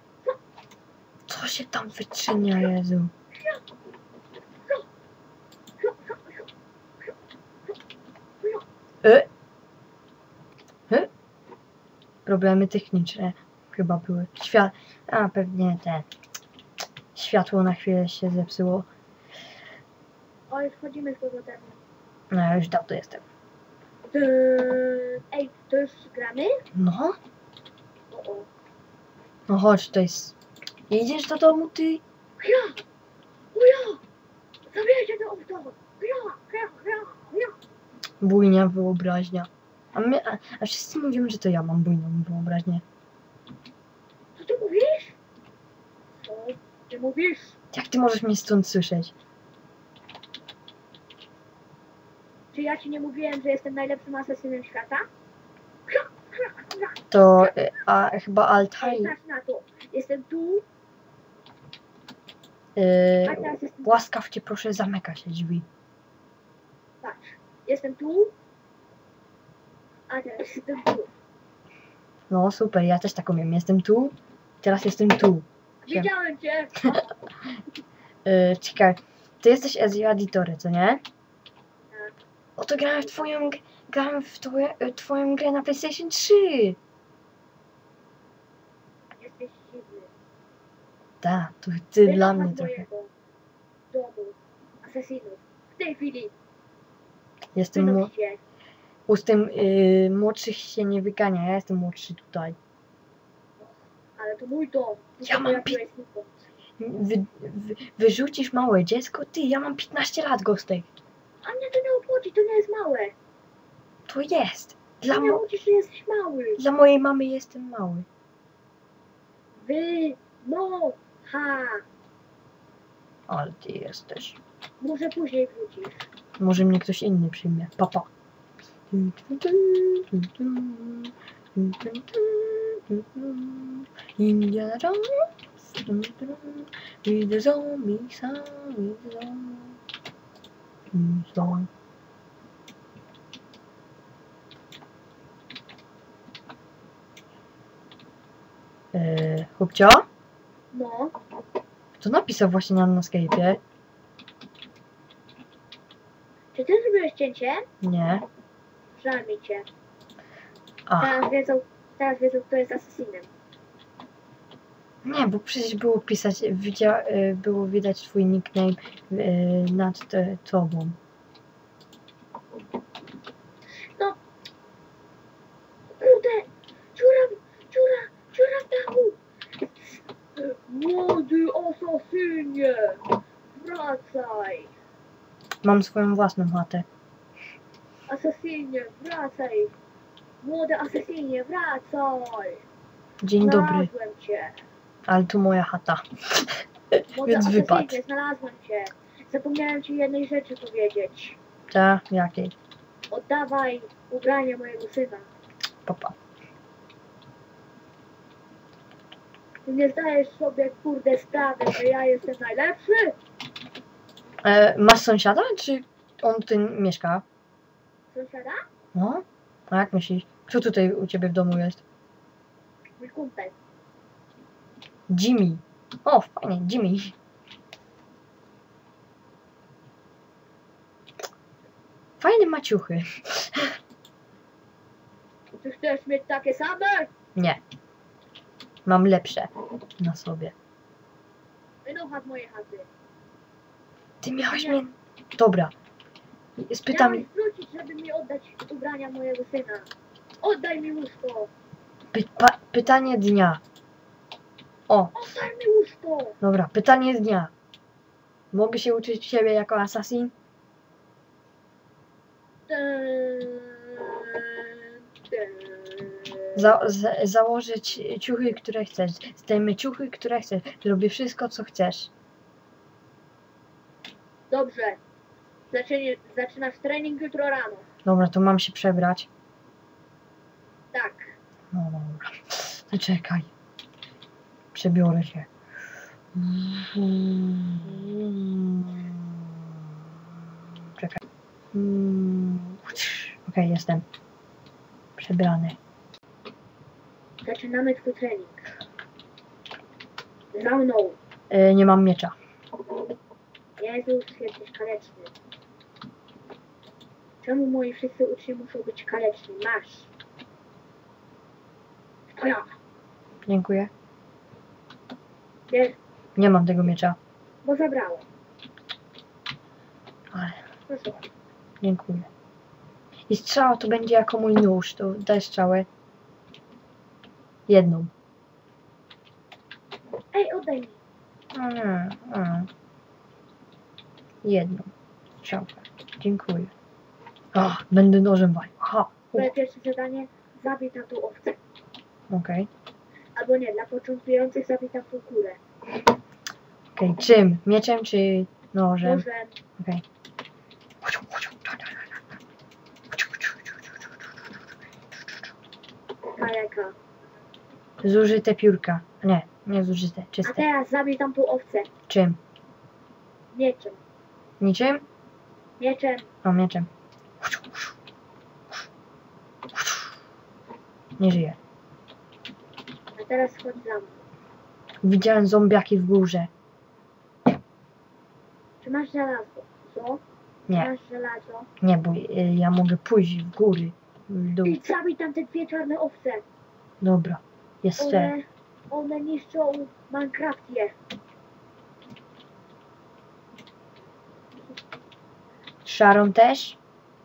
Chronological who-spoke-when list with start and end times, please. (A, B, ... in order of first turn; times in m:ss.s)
0:01.3-0:03.1 A
0:02.4-0:02.7 B
0:05.8-0:06.5 B
0:09.0-0:09.3 A
0:12.2-0:16.1 A
0:17.1-0:18.9 A
0:20.5-0:21.8 B
0:22.3-0:23.2 A
0:24.1-0:26.6 B
0:26.7-0:27.2 A
0:28.1-0:28.5 B
0:29.5-0:30.4 A
0:30.9-0:32.0 A
0:32.4-0:32.8 B
0:33.5-0:34.0 B
0:34.7-0:37.6 B
0:38.2-0:42.8 A
0:44.4-0:45.2 B
0:46.2-0:47.6 B
0:47.7-0:49.1 A
0:52.5-0:55.0 B
0:55.9-0:57.6 B
0:57.1-0:59.1 A
0:58.8-1:00.6 B
1:02.8-1:05.6 A
1:03.2-1:04.0 B
1:07.0-1:08.3 B
1:10.1-1:11.1 B
1:12.3-1:16.1 A
1:15.8-1:17.1 B
1:18.2-1:21.0 A
1:22.6-1:26.8 A
1:29.2-1:30.1 B
1:31.2-1:32.8 A
1:32.0-1:33.1 B
1:33.9-1:36.3 B
1:37.5-1:38.1 A
1:37.7-1:38.4 B
1:39.1-1:42.6 A
1:44.2-1:46.5 B
1:45.2-1:45.8 A
1:46.8-1:50.9 A
1:51.4-1:53.1 B
1:54.1-1:55.4 A
1:55.1-1:56.6 B
1:56.6-1:58.0 A
1:59.6-2:01.8 B
2:03.3-2:04.4 A
2:04.8-2:06.1 B
2:06.4-2:08.1 A
2:08.9-2:19.8 A
2:20.9-2:21.7 A
2:28.9-2:30.0 A
2:30.7-2:31.1 B
2:32.0-2:33.6 A
2:36.5-2:37.6 B
2:37.8-2:38.2 A
2:38.9-2:39.6 B
2:40.9-2:41.2 A
2:41.0-2:43.3 B
2:45.0-2:51.0 A
2:53.8-2:54.2 B
2:55.9-3:03.0 B
3:03.5-3:04.7 B
3:05.6-3:06.8 A
3:08.1-3:09.7 B
3:10.4-3:12.6 B
3:13.2-3:13.9 A
3:13.4-3:14.6 B
3:15.1-3:18.0 A
3:17.1-3:21.4 B
3:21.7-3:22.5 A
3:23.1-3:25.3 B
3:25.8-3:26.2 A
3:29.6-3:33.1 B
3:34.4-3:37.2 A
3:38.1-3:38.6 B
3:38.9-3:41.8 A
3:43.0-3:43.5 B
3:45.1-3:47.1 A
3:52.2-3:53.7 A
3:55.6-3:57.1 B
3:58.8-4:00.5 A
4:01.8-4:02.9 B
4:04.2-4:05.7 A
4:04.5-4:04.8 B
4:06.6-4:07.2 A
4:06.9-4:09.9 B
4:10.4-4:11.5 B
4:12.1-4:13.6 A
4:14.9-4:15.1 A
4:15.1-4:16.4 B
4:16.4-4:17.5 A
4:18.5-4:20.3 A
4:22.7-4:26.8 B
4:26.5-4:32.1 A
4:34.5-4:35.0 B
4:35.7-4:37.8 B
4:38.0-4:39.3 A
4:40.9-4:41.3 B
4:41.7-4:43.5 A
4:44.7-4:45.5 A
4:46.3-4:49.6 A
4:51.7-4:54.0 A
4:55.2-4:55.8 A
4:57.4-4:58.7 B
5:00.5-5:01.2 B
5:01.5-5:02.3 A
5:03.8-5:05.3 B
5:07.4-5:10.1 B
5:12.3-5:12.7 B
5:13.5-5:13.9 A
5:15.7-5:16.0 B
5:16.4-5:17.2 A
5:17.6-5:18.2 B
5:20.9-5:21.2 B
5:21.8-5:22.3 A
5:23.3-5:25.9 A
5:27.7-5:28.1 A
5:30.3-5:31.0 B
5:31.5-5:32.7 A
5:34.4-5:36.7 A
5:37.5-5:39.5 A
5:39.3-5:41.6 B
5:42.3-5:42.7 A
5:43.4-5:45.6 B
5:47.0-5:49.2 A
5:49.0-5:49.5 B
5:51.0-5:52.4 A
5:53.1-5:54.0 A
5:56.4-5:56.9 B
5:58.0-6:00.6 A
6:00.4-6:01.9 B
6:02.1-6:02.4 A
6:03.5-6:04.0 B
6:04.6-6:05.0 A
6:05.8-6:06.2 B
6:06.4-6:06.9 A
6:07.4-6:08.0 A
6:09.7-6:10.1 A
6:11.2-6:11.6 A
6:13.2-6:14.2 B
6:15.0-6:16.5 A
6:18.8-6:21.7 B
6:21.8-6:24.8 A
6:24.6-6:26.4 B
6:27.0-6:28.3 A
6:28.0-6:30.9 B
6:35.8-6:36.8 A